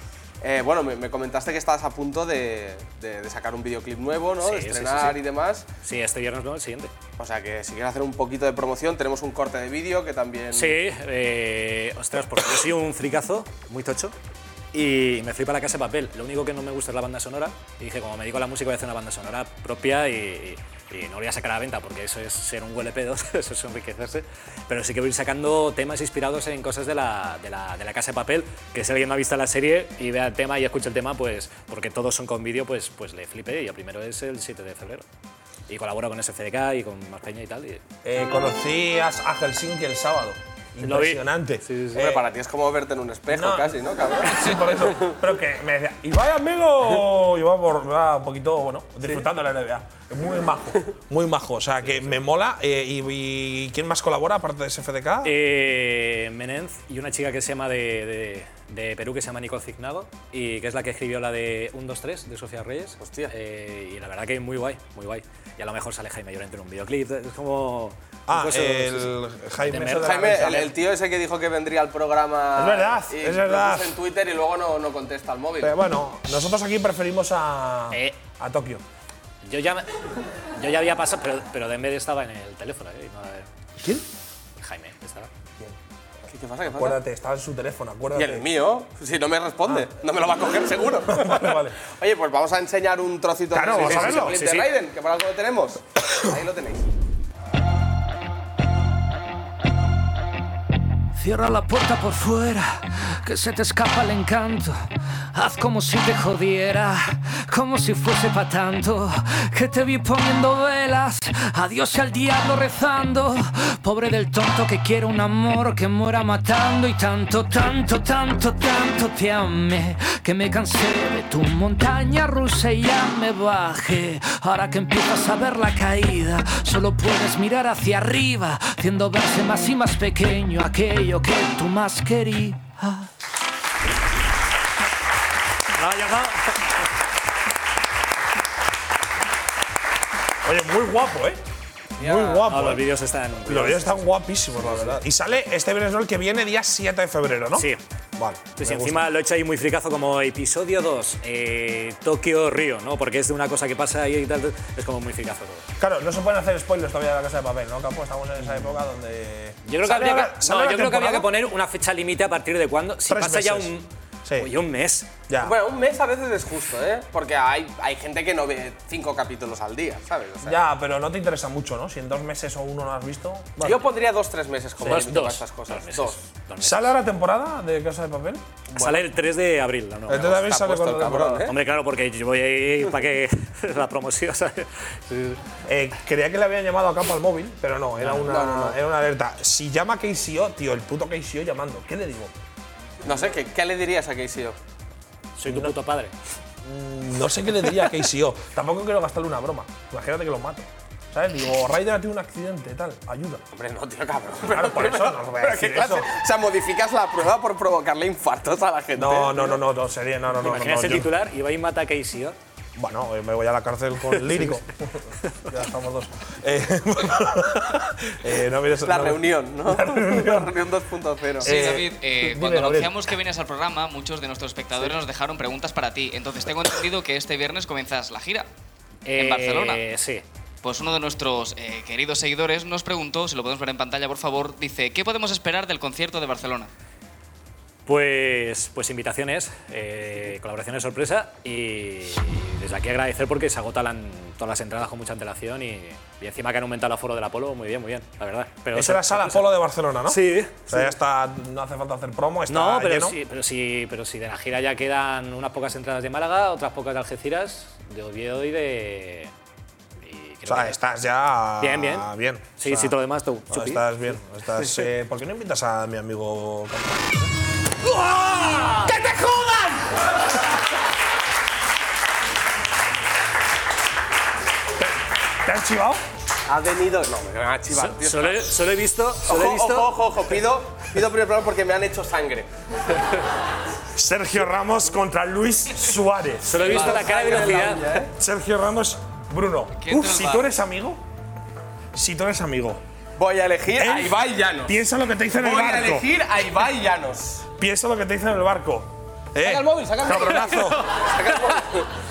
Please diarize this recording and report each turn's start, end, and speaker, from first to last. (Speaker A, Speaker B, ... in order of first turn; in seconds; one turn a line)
Speaker A: 0.4-5.7
Speaker B: 4.4-5.2
Speaker B: 5.8-6.9
Speaker A: 7.2-10.8
Speaker B: 10.5-14.1
Speaker B: 14.7-35.0
Speaker B: 35.7-37.8
Speaker C: 38.0-41.6
Speaker B: 40.8-42.2
Speaker A: 41.9-44.9
Speaker C: 43.3-55.4
Speaker B: 51.9-52.2
Speaker B: 55.2-70.6
Speaker A: 63.0-63.3
Speaker C: 68.3-70.7
Speaker A: 70.0-75.7
Speaker C: 72.5-74.0
Speaker C: 75.6-78.8
Speaker B: 77.9-78.2
Speaker B: 79.4-83.5
Speaker B: 84.6-85.3
Speaker A: 86.3-87.0
Speaker C: 86.7-88.5
Speaker A: 88.1-96.9
Speaker C: 91.1-91.8
Speaker C: 93.5-94.4
Speaker B: 93.7-94.7
Speaker D: 101.1-133.1
Speaker B: 135.7-136.6
Speaker C: 140.4-141.4
Speaker C: 142.0-142.8
Speaker A: 142.0-142.4
Speaker B: 142.4-144.0
Speaker C: 143.4-149.1
Speaker B: 144.6-145.0
Speaker B: 147.5-147.8
Speaker B: 148.6-155.7
Speaker C: 155.8-161.3
Speaker B: 159.6-165.1
Speaker C: 163.1-163.7
Speaker C: 164.2-164.5
Speaker C: 165.3-165.6
Speaker A: 165.4-170.6
Speaker C: 170.4-173.8
Speaker A: 173.6-176.2
Speaker B: 174.8-176.9
Speaker C: 176.6-178.4
Speaker A: 178.7-179.0
Speaker B: 178.8-180.5
Speaker C: 180.1-181.5
Speaker A: 180.1-181.5
Speaker B: 181.4-185.4
Speaker C: 185.7-192.3
Speaker B: 188.0-188.3
Speaker A: 188.2-188.8
Speaker A: 193.0-194.6
Speaker B: 195.4-196.1
Speaker C: 195.4-195.8
Speaker C: 196.6-203.4
Speaker A: 203.5-209.6
Speaker C: 204.5-206.1
Speaker C: 208.9-211.1
Speaker B: 210.4-212.4
Speaker C: 212.8-220.6
Speaker B: 214.1-214.6
Speaker A: 218.8-221.7
Speaker C: 221.4-223.1
Speaker E: 221.4-228.5
Speaker B: 229.0-230.2
Speaker E: 229.1-229.8
Speaker E: 230.6-236.7
Speaker B: 237.8-249.5
Speaker C: 248.7-253.2
Speaker B: 250.1-250.9
Speaker B: 252.5-259.3
Speaker B: 260.0-260.8
Speaker C: 260.4-263.0
Speaker B: 261.6-262.1
Speaker B: 262.6-264.0
Speaker C: 263.5-267.3
Speaker B: 264.6-264.9
Speaker B: 268.1-269.0
Speaker C: 268.1-269.8
Speaker C: 275.4-276.0
Speaker A: 276.5-278.5
Speaker B: 277.7-279.9
Speaker A: 279.2-282.5
Speaker C: 283.9-286.9
Speaker B: 286.4-288.1
Speaker A: 286.6-288.1
Speaker C: 288.1-291.0
Speaker E: 289.8-290.5
Speaker C: 291.9-292.8
Speaker A: 293.2-294.8
Speaker C: 293.8-296.1
Speaker A: 295.4-297.4
Speaker C: 297.6-300.8
Speaker A: 299.4-301.9
Speaker B: 300.2-300.7